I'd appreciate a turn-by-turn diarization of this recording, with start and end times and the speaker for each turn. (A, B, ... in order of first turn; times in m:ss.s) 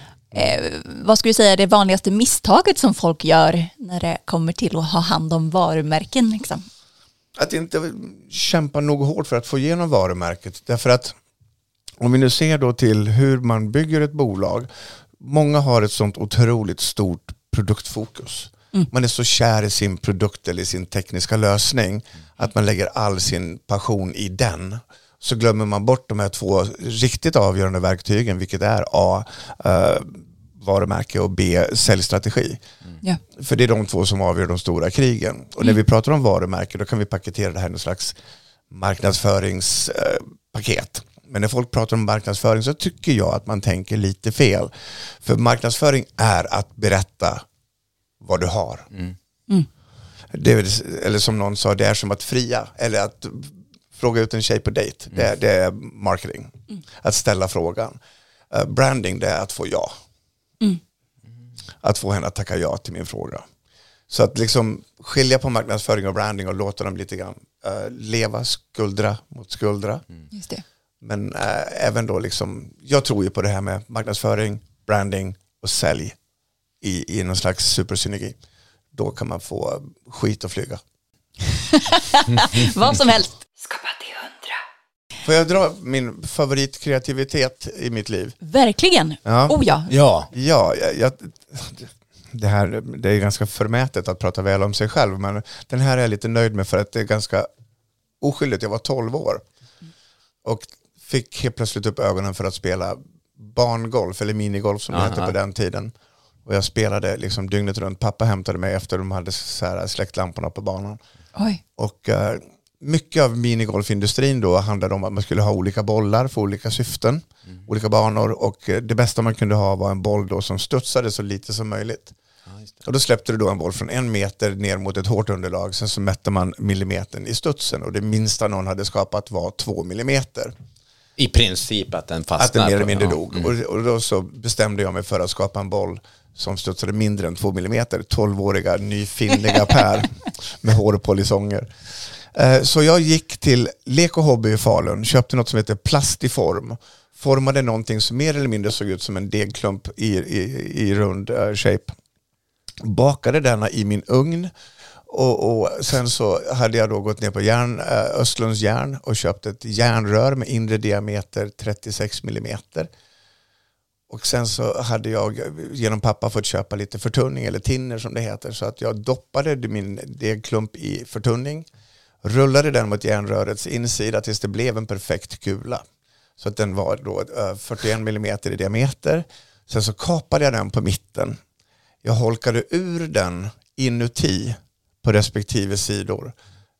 0:00.3-0:06.6 A
0:07.4-0:11.2 B
0:12.0-0:32.6 B
0:33.3-0:38.2 B
0:38.7-0:47.4 B
0:48.2-0:48.9 B
0:50.3-0:58.0 B
0:58.5-1:00.0 B
1:01.8-1:03.4 B
1:04.1-1:10.0 B
1:10.3-1:10.6 A
1:11.0-1:16.2 B
1:16.8-1:18.4 B
1:18.9-1:20.8 B
1:21.5-1:23.4 A
1:25.2-1:28.4 B
1:28.4-1:29.9 A
1:29.2-1:29.6 B
1:29.9-1:30.3 C
1:30.3-1:37.5 B
1:38.2-1:39.4 B
1:40.4-1:45.9 B
1:44.9-1:45.3 C
1:46.4-1:51.0 B
1:51.4-1:51.6 A
1:51.8-2:02.1 B
2:02.8-2:10.5 B
2:11.2-2:13.5 C
2:12.4-2:21.7 B
2:22.2-2:31.9 B
2:32.8-2:34.5 B
2:35.1-2:42.9 B
2:44.1-2:51.7 B
2:52.2-2:55.8 B
2:56.4-3:01.4 B
3:02.0-3:06.3 B